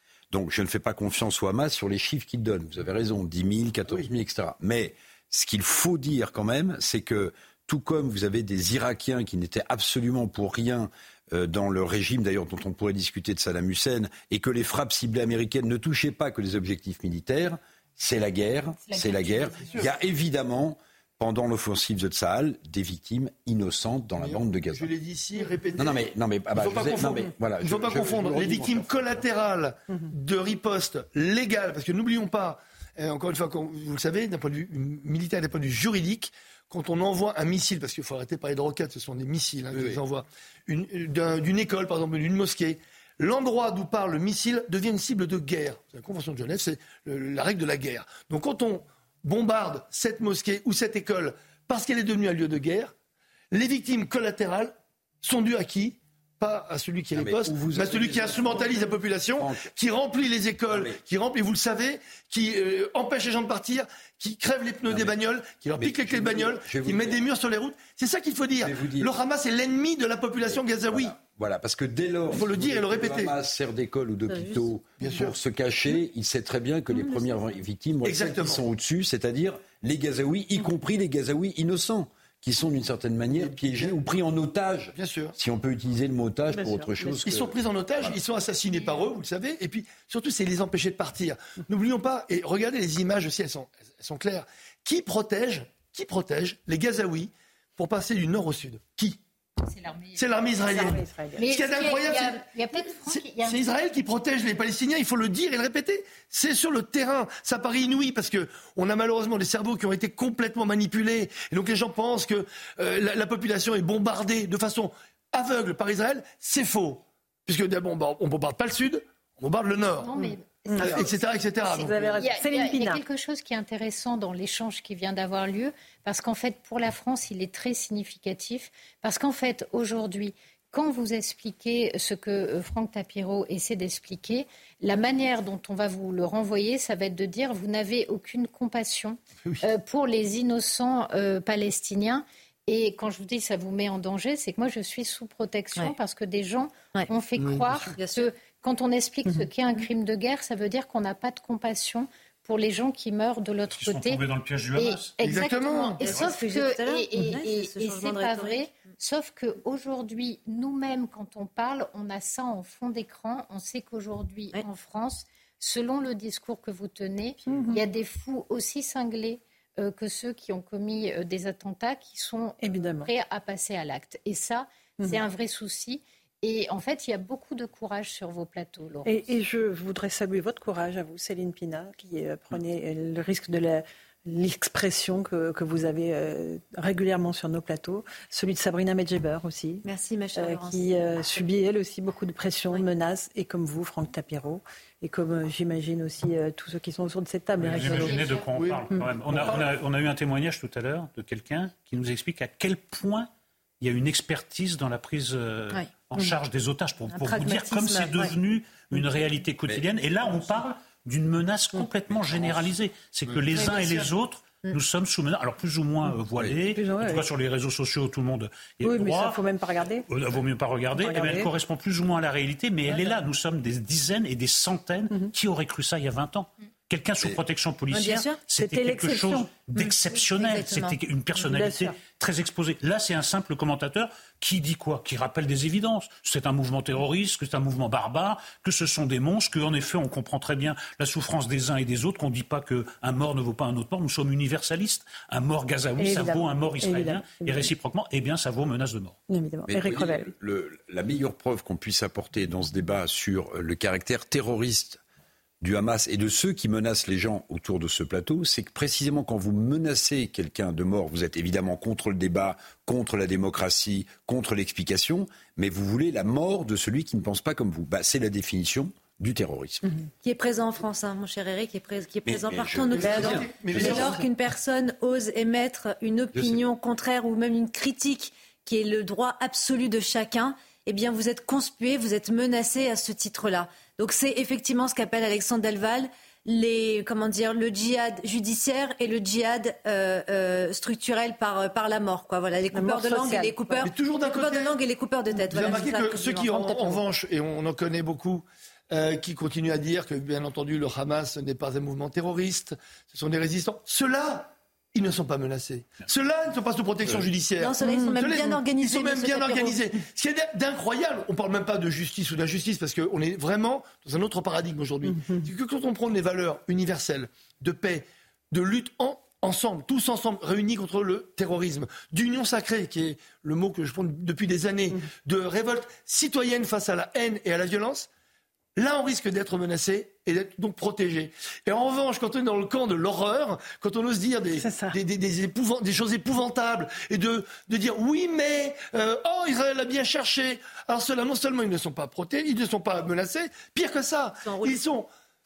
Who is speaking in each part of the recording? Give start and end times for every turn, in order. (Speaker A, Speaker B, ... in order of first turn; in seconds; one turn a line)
Speaker A: 0.3-24.9
Speaker B: 18.8-19.9
Speaker C: 24.2-25.9
Speaker A: 25.8-29.2
Speaker C: 26.5-52.9
Speaker C: 53.5-71.1
Speaker A: 57.1-59.7
Speaker A: 60.7-61.0
Speaker A: 64.9-65.2
Speaker A: 65.8-67.2
Speaker A: 68.6-69.1
Speaker A: 70.4-88.2
Speaker C: 72.3-73.3
Speaker C: 75.0-75.3
Speaker C: 78.0-78.6
Speaker C: 83.3-84.0
Speaker C: 84.9-85.3
Speaker D: 86.5-87.0
Speaker C: 87.1-99.2
Speaker B: 88.7-89.1
Speaker B: 99.6-103.6
Speaker C: 100.1-102.4
Speaker D: 100.7-101.4
Speaker C: 103.0-120.1
Speaker B: 120.0-154.2
Speaker D: 120.2-121.0
Speaker C: 120.8-122.2
Speaker D: 121.7-123.0
Speaker C: 147.4-147.8
Speaker E: 147.9-148.3
Speaker F: 153.8-155.2
Speaker B: 154.8-179.3
Speaker C: 155.2-156.0
Speaker F: 156.0-156.3
Speaker E: 156.1-158.7
Speaker D: 167.4-167.8
Speaker D: 172.6-173.1
Speaker D: 179.0-198.2
Speaker E: 189.8-190.8
Speaker F: 197.6-203.3
Speaker C: 197.7-199.7
Speaker B: 197.8-198.5
Speaker F: 203.8-219.4
Speaker D: 207.1-208.3
Speaker A: 212.1-212.7
Speaker E: 213.6-213.8
Speaker D: 216.7-217.2
Speaker D: 218.8-220.0
Speaker F: 220.1-249.2
Speaker D: 220.9-221.5
Speaker D: 222.9-223.2
Speaker D: 227.9-229.7
Speaker E: 227.9-228.4
Speaker E: 230.3-231.0
Speaker D: 231.4-231.9
Speaker D: 246.0-247.7
Speaker D: 249.3-250.3
Speaker A: 249.7-255.0
Speaker A: 255.6-269.9
Speaker E: 270.2-296.9
Speaker A: 272.2-274.1
Speaker C: 272.9-274.2
Speaker A: 276.3-276.6
Speaker D: 292.7-293.9
Speaker C: 293.8-294.8
Speaker C: 295.4-328.1
Speaker D: 295.5-297.0
Speaker E: 307.6-309.7
Speaker D: 307.8-308.2
Speaker D: 315.0-315.5
Speaker C: 328.8-345.1
Speaker D: 334.5-335.0